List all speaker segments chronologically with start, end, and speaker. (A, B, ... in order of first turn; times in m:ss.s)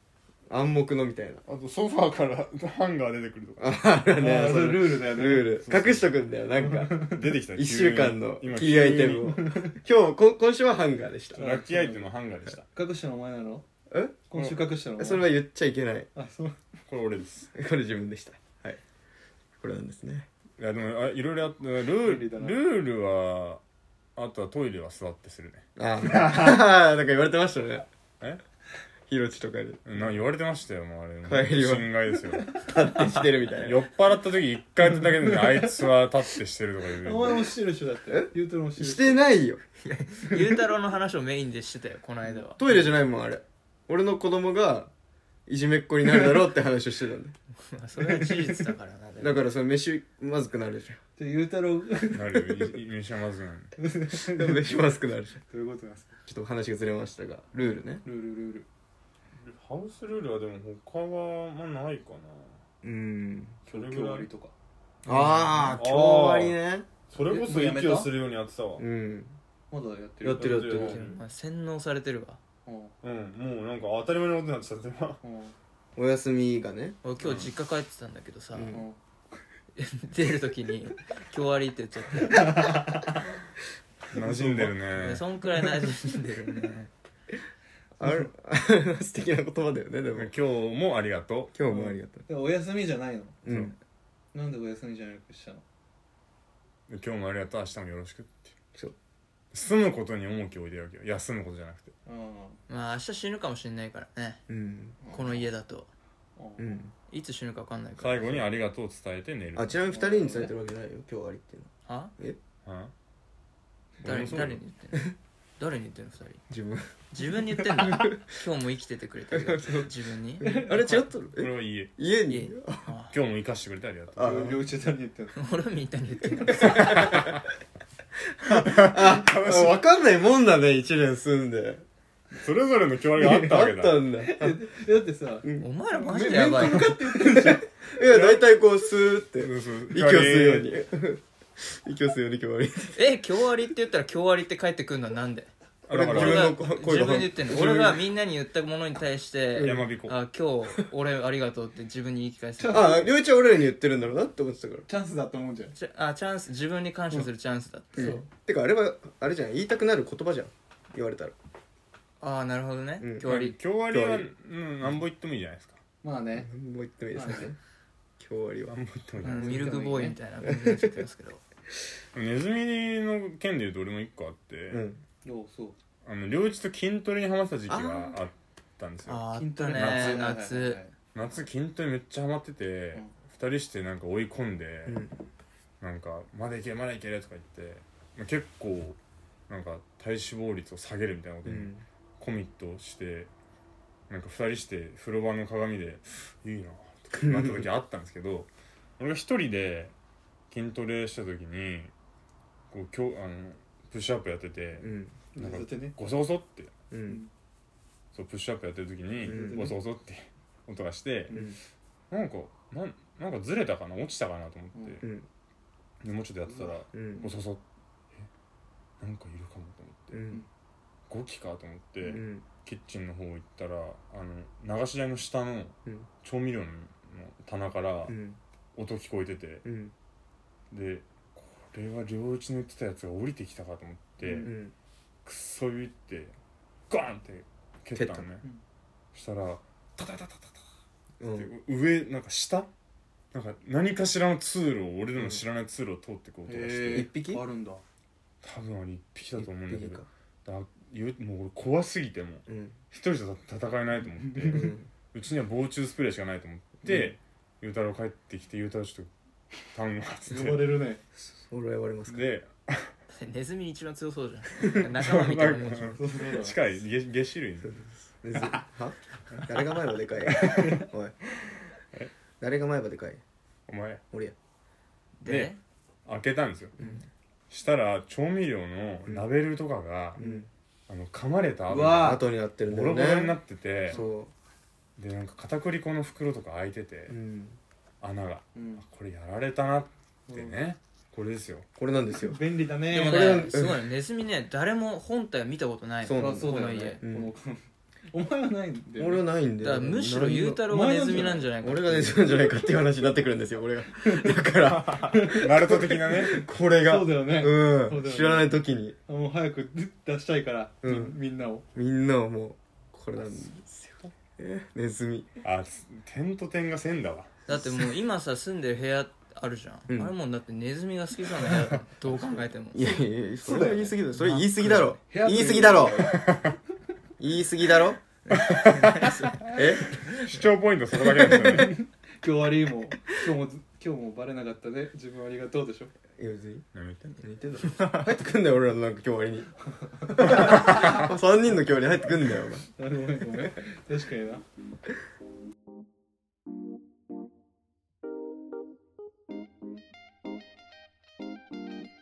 0:00.5-0:01.4 A
0:01.5-0:03.8 B
0:03.6-0:11.5 A
0:04.1-0:05.6 C
0:05.6-0:06.2 B
0:06.6-0:07.2 C
0:07.0-0:09.4 B
0:09.2-0:09.8 C
0:11.3-0:12.6 B
0:11.4-0:12.1 C
0:12.7-0:13.6 C
0:13.9-0:16.1 A
0:14.3-0:15.3 C
0:16.1-0:16.7 C
0:16.9-0:17.5 B
0:17.5-0:18.8 A
0:19.6-0:20.3 A
0:20.6-0:23.6 B
0:22.0-0:22.6 C
0:24.2-0:25.6 B
0:25.8-0:27.9 A
0:26.2-0:26.5 C
0:29.1-0:29.8 A
0:29.8-0:32.5 B
0:31.2-0:31.9 A
0:32.5-0:33.8 A
0:33.5-0:37.5 B
0:35.0-0:35.9 C
0:37.0-0:39.2 C
0:38.1-0:39.6 A
0:39.8-0:42.6 D
0:42.6-0:44.9 A
0:45.5-0:47.4 A
0:47.7-0:49.4 D
0:48.0-0:48.7 C
0:49.2-0:51.0 A
0:51.2-0:52.4 C
0:52.1-0:53.8 B
0:53.8-0:54.9 C
0:54.1-0:55.4 A
0:55.4-0:56.2 C
0:56.3-0:58.0 A
0:58.0-0:58.7 C
0:59.4-1:02.6 B
1:02.8-1:03.6 A
1:03.6-1:04.3 B
1:03.7-1:04.5 C
1:05.0-1:06.9 A
1:05.0-1:05.8 D
1:05.6-1:06.6 B
1:07.1-1:08.8 B
1:07.2-1:08.1 C
1:08.8-1:09.4 A
1:09.7-1:10.9 C
1:10.2-1:11.0 A
1:10.4-1:11.2 B
1:10.8-1:12.4 D
1:12.6-1:12.9 C
1:13.0-1:15.2 B
1:15.2-1:15.5 C
1:16.0-1:17.0 A
1:17.0-1:18.8 D
1:17.2-1:17.5 B
1:18.5-1:18.8 A
1:18.7-1:19.0 C
1:19.8-1:22.7 D
1:22.2-1:23.3 C
1:24.1-1:25.2 B
1:24.1-1:24.8 C
1:24.9-1:26.9 D
1:28.0-1:30.3 A
1:28.0-1:28.3 C
1:30.1-1:31.5 B
1:31.5-1:32.2 A
1:31.7-1:33.4 C
1:33.4-1:33.8 A
1:33.4-1:33.7 B
1:34.3-1:35.6 C
1:36.9-1:38.5 B
1:39.5-1:41.9 B
1:42.0-1:42.6 C
1:42.7-1:44.4 D
1:44.5-1:45.0 A
1:45.0-1:45.5 C
1:45.1-1:45.9 D
1:46.4-1:46.8 C
1:46.6-1:46.9 A
1:47.1-1:48.5 D
1:48.0-1:49.8 B
1:49.6-1:52.4 A
1:49.9-1:50.5 C
1:51.9-1:52.1 D
1:52.6-1:52.9 B
1:54.0-1:54.6 B
1:54.0-1:56.4 D
1:56.5-1:56.9 A
1:57.1-2:01.0 D
1:57.8-1:58.2 A
1:59.3-2:02.9 A
2:00.4-2:00.7 C
2:01.4-2:01.9 B
2:02.3-2:03.2 D
2:03.1-2:04.4 B
2:04.1-2:04.6 A
2:04.2-2:05.4 C
2:05.3-2:07.3 D
2:06.4-2:07.4 A
2:06.7-2:07.4 B
2:08.4-2:11.8 A
2:08.4-2:09.8 B
2:12.4-2:14.0 B
2:13.2-2:14.6 A
2:14.2-2:17.7 C
2:15.4-2:15.7 A
2:15.6-2:16.9 D
2:16.3-2:23.1 A
2:18.1-2:18.4 B
2:19.4-2:20.7 B
2:22.9-2:25.5 D
2:25.9-2:26.6 B
2:25.9-2:28.0 A
2:26.0-2:33.0 D
2:29.5-2:29.9 A
2:29.6-2:30.2 B
2:32.6-2:33.1 C
2:32.7-2:34.9 A
2:34.9-2:35.8 C
2:35.8-2:38.2 D
2:38.0-2:41.3 A
2:38.0-2:38.2 C
2:42.2-2:43.5 D
2:43.0-2:43.4 A
2:43.2-2:45.8 B
2:43.9-2:44.3 A
2:46.0-2:46.5 C
2:46.4-2:47.6 A
2:47.1-2:47.5 C
2:48.2-2:48.8 A
2:48.7-2:49.7 B
2:49.2-2:50.2 C
2:49.2-2:51.4 D
2:50.4-2:51.0 A
2:52.1-2:54.9 B
2:54.7-2:55.0 A
2:55.2-2:55.8 C
2:56.0-3:00.3 B
2:57.7-2:58.2 A
2:59.0-3:00.8 D
2:59.4-3:00.9 C
3:01.1-3:05.0 B
3:04.9-3:05.1 A
3:05.8-3:09.0 B
3:09.5-3:13.3 B
3:11.4-3:11.8 A
3:14.1-3:19.9 B
3:17.1-3:17.7 A
3:20.5-3:21.9 B
3:22.7-3:26.7 B
3:24.8-3:25.2 A
3:25.4-3:26.0 C
3:26.9-3:27.2 A
3:28.1-3:31.4 B
3:29.2-3:29.8 C
3:29.2-3:29.7 A
3:31.3-3:31.5 C
3:31.3-3:31.6 A
3:32.1-3:35.0 B
3:34.8-3:35.0 C
3:35.0-3:35.3 A
3:36.0-3:37.6 B
3:36.5-3:37.4 C
3:36.9-3:37.3 A
3:39.0-3:40.2 B
3:40.1-3:40.4 A
3:41.1-3:48.2 B
3:42.0-3:42.4 A
3:48.1-3:48.4 A
3:48.8-3:49.6 B
3:49.6-3:49.9 A
3:50.7-3:54.5 B
3:54.2-3:54.5 C
3:54.4-3:54.7 A
3:55.2-3:56.4 B
3:56.9-3:58.4 B
3:57.9-3:58.2 A
3:59.1-4:00.6 B
4:01.2-4:01.5 A
4:01.3-4:02.7 B
4:03.3-4:07.1 B
4:05.2-4:05.4 A
4:06.4-4:07.8 C
4:06.9-4:07.4 A
4:08.4-4:19.1 B
4:09.4-4:10.1 A
4:12.5-4:12.8 A
4:14.2-4:14.6 C
4:14.5-4:14.9 A
4:19.7-4:20.7 B
4:20.3-4:21.0 C
4:21.2-4:22.3 A
4:22.1-4:22.9 B
4:23.1-4:26.0 D
4:24.8-4:27.7 B
4:25.9-4:26.6 C
4:27.6-4:31.2 A
4:30.2-4:30.9 B
4:30.6-4:30.8 C
4:31.5-4:32.1 B
4:32.4-4:33.2 A
4:33.7-4:34.0 B
4:35.2-4:35.6 D
4:35.2-4:36.8 B
4:37.5-4:40.2 B
4:40.2-4:40.5 A
4:40.9-4:44.0 B
4:41.7-4:42.2 C
4:41.9-4:44.3 A
4:43.9-4:44.2 C
4:45.0-4:47.2 B
4:47.1-4:47.6 A
4:48.0-4:51.6 B
4:48.5-4:48.8 C
4:50.3-4:50.6 C
4:51.8-4:52.4 A
4:52.1-4:53.5 C
4:52.9-4:57.0 D
4:52.9-4:53.9 A
4:56.0-4:57.3 A
4:56.2-4:59.2 C
4:59.0-5:00.6 A
4:59.6-5:02.2 D
5:00.7-5:01.5 C
5:01.6-5:09.0 A
5:04.0-5:04.4 C
5:04.6-5:06.4 B
5:05.1-5:05.5 C
5:06.7-5:11.6 C
5:10.8-5:11.2 A
5:11.8-5:15.4 A
5:15.4-5:17.3 B
5:17.5-5:23.0 D
5:17.5-5:17.9 A
5:19.9-5:20.1 A
5:22.7-5:26.2 A
5:23.4-5:23.9 C
5:24.2-5:24.9 D
5:25.1-5:26.4 C
5:26.1-5:26.5 B
5:27.2-5:28.0 A
5:28.3-5:29.6 D
5:28.3-5:31.8 B
5:29.5-5:29.9 A
5:31.4-5:35.9 C
5:36.2-5:36.6 A
5:36.7-5:37.2 B
5:37.2-5:39.5 A
5:37.7-5:38.1 D
5:40.1-5:42.7 A
5:40.1-5:40.6 C
5:42.8-5:44.4 C